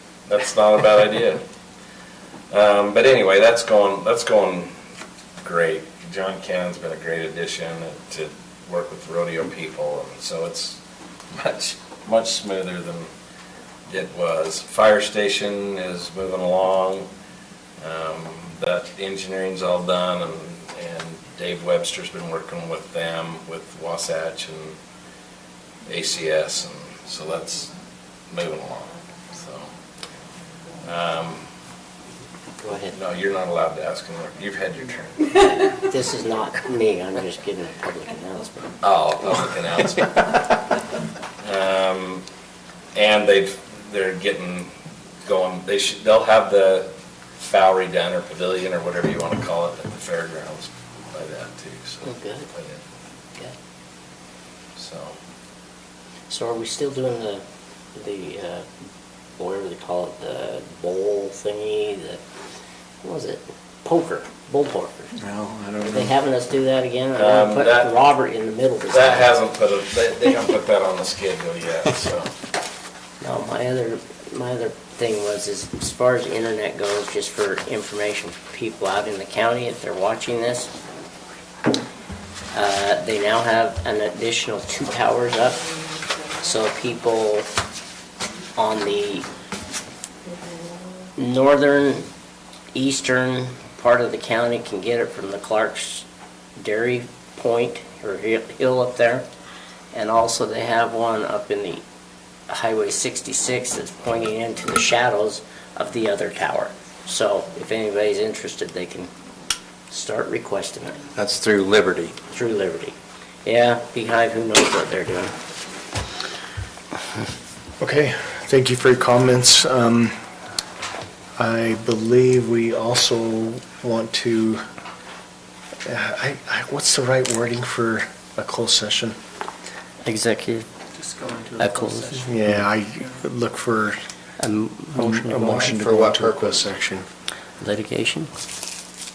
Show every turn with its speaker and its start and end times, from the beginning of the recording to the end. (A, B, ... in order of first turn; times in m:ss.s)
0:00.3-0:01.4 A
0:02.5-0:04.7 A
0:05.4-0:10.8 A
0:11.3-0:13.1 A
0:13.9-0:17.1 A
0:17.8-0:24.8 A
0:25.8-0:27.7 A
0:28.3-0:29.7 A
0:30.8-0:31.4 A
0:32.6-0:32.9 B
0:32.9-0:35.4 A
0:35.7-0:38.7 B
0:38.8-0:40.1 A
0:41.4-0:42.2 A
0:42.9-0:44.7 A
0:45.2-0:46.9 A
0:47.4-0:52.8 A
0:52.0-0:52.5 B
0:54.8-0:55.2 A
0:56.3-0:57.4 B
0:57.9-0:58.6 B
0:59.4-1:02.2 B
1:03.0-1:05.2 B
1:05.2-1:06.1 C
1:05.8-1:09.3 B
1:07.2-1:07.9 A
1:08.9-1:12.3 A
1:13.2-1:20.7 B
1:22.5-1:25.7 B
1:26.4-1:27.5 B
1:28.6-1:29.2 B
1:31.2-1:32.1 B
1:32.7-1:36.0 B
1:36.6-1:39.2 B
1:39.9-1:41.8 B
1:42.5-1:49.1 B
1:49.9-1:51.0 B
1:51.1-1:52.2 C
1:52.3-1:55.3 B
1:57.8-2:00.1 D
2:01.4-2:04.6 D
2:05.8-2:09.2 D
2:10.0-2:10.6 B
2:10.9-2:13.2 E
2:11.6-2:12.2 B
2:12.2-2:14.0 D
2:14.4-2:15.6 B
2:14.9-2:17.0 D
2:15.7-2:16.6 C
2:17.6-2:18.3 B